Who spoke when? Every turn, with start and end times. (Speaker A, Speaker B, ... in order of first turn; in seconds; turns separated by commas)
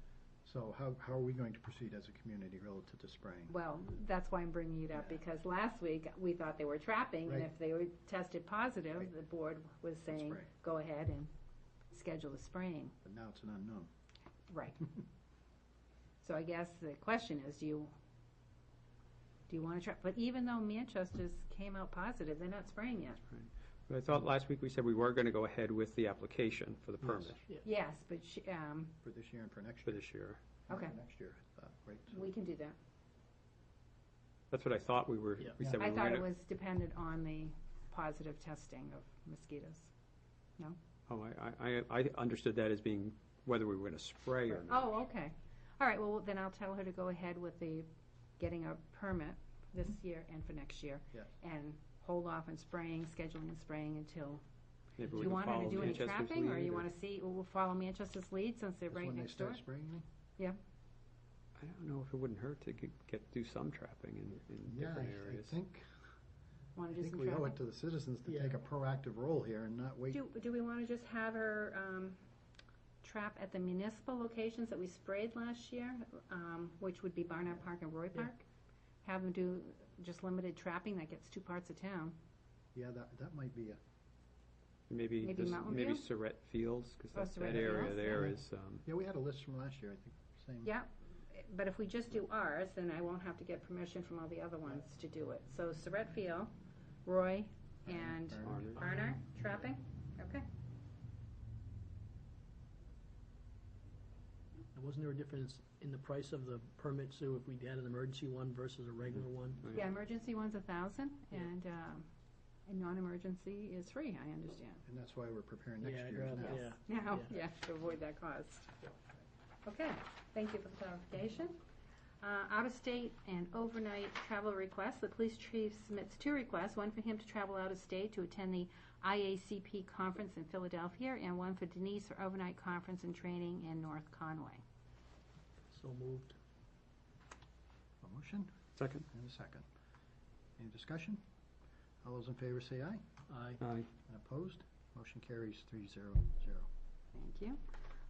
Speaker A: 0.5-3.5, Speaker B: 3.5-11.3, Speaker A: 7.3-7.5, Speaker A: 10.1-10.5, Speaker B: 11.9-12.9, Speaker A: 13.0-13.9, Speaker B: 14.5-14.9, Speaker B: 16.2-17.9, Speaker B: 19.5-23.2, Speaker C: 23.3-27.4, Speaker D: 27.1-27.6, Speaker B: 27.6-28.9, Speaker A: 29.0-30.0, Speaker C: 29.9-30.4, Speaker A: 30.7-32.3, Speaker B: 30.7-30.9, Speaker B: 32.1-32.8, Speaker C: 34.5-36.2, Speaker B: 35.8-39.9, Speaker C: 41.1-44.9, Speaker B: 44.6-47.9, Speaker B: 48.4-54.4, Speaker C: 55.0-56.9, Speaker B: 55.1-59.6, Speaker A: 58.9-60.0, Speaker C: 61.6-65.5, Speaker A: 64.7-65.9, Speaker B: 66.8-67.6, Speaker A: 66.9-70.2, Speaker B: 70.1-72.2, Speaker B: 73.0-78.5, Speaker B: 79.0-82.2, Speaker A: 82.8-83.8, Speaker C: 84.9-88.8, Speaker B: 85.2-86.0, Speaker B: 87.1-88.2, Speaker A: 87.4-90.7, Speaker B: 90.6-96.5, Speaker B: 97.0-100.4, Speaker A: 97.8-98.8, Speaker C: 98.4-98.8, Speaker D: 104.7-109.6, Speaker B: 109.7-112.1, Speaker B: 112.7-114.8, Speaker A: 114.8-116.7, Speaker D: 115.8-117.3, Speaker B: 116.4-118.8, Speaker B: 119.7-121.6, Speaker B: 122.2-134.6, Speaker D: 135.7-136.4, Speaker A: 138.0-138.6, Speaker C: 138.8-139.1, Speaker A: 139.1-139.7, Speaker A: 140.6-141.2, Speaker A: 142.0-143.0, Speaker D: 143.3-143.6, Speaker C: 143.6-143.9, Speaker A: 144.1-146.7, Speaker B: 147.1-147.6